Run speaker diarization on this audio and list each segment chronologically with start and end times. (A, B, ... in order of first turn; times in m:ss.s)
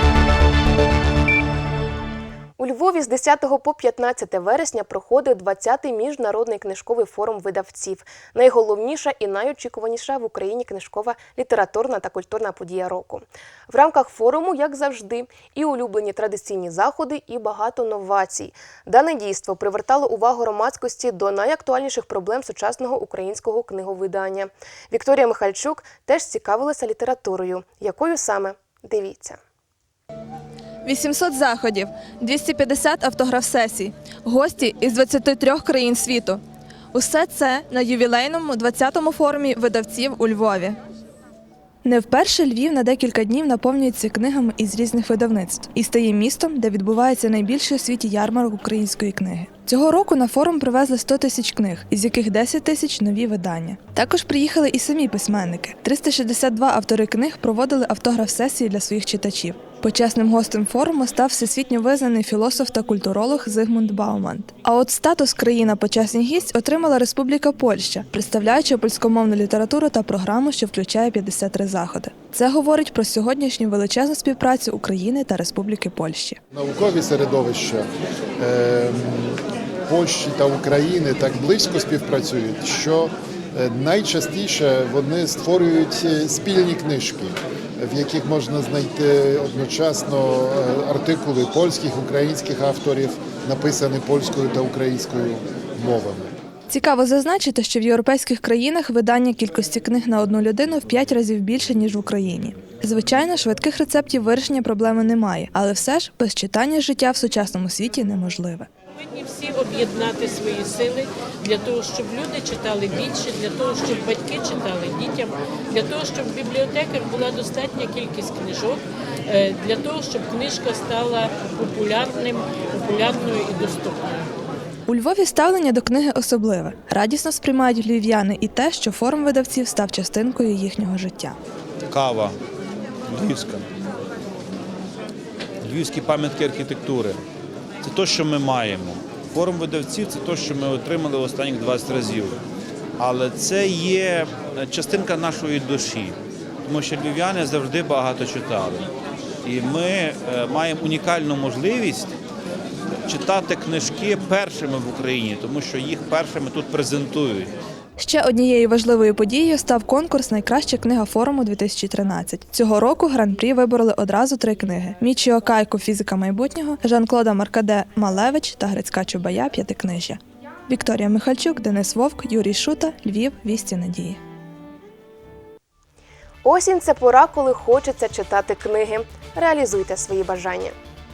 0:02.6-0:29.4 A
0:30.9-0:36.4 B
0:36.9-0:40.8 B
0:41.8-1:16.4 B
1:16.5-1:17.8 C
1:18.4-1:36.3 C
1:36.7-1:48.7 B
1:49.2-2:04.2 D
2:04.9-2:11.4 B
2:11.9-2:12.3 E
2:13.1-2:13.6 E
2:15.6-2:17.2 E
2:17.8-2:22.4 E
2:23.0-2:28.9 E
2:29.4-2:32.1 E
2:33.1-2:37.5 E
2:38.0-2:54.2 B
2:56.4-3:00.7 A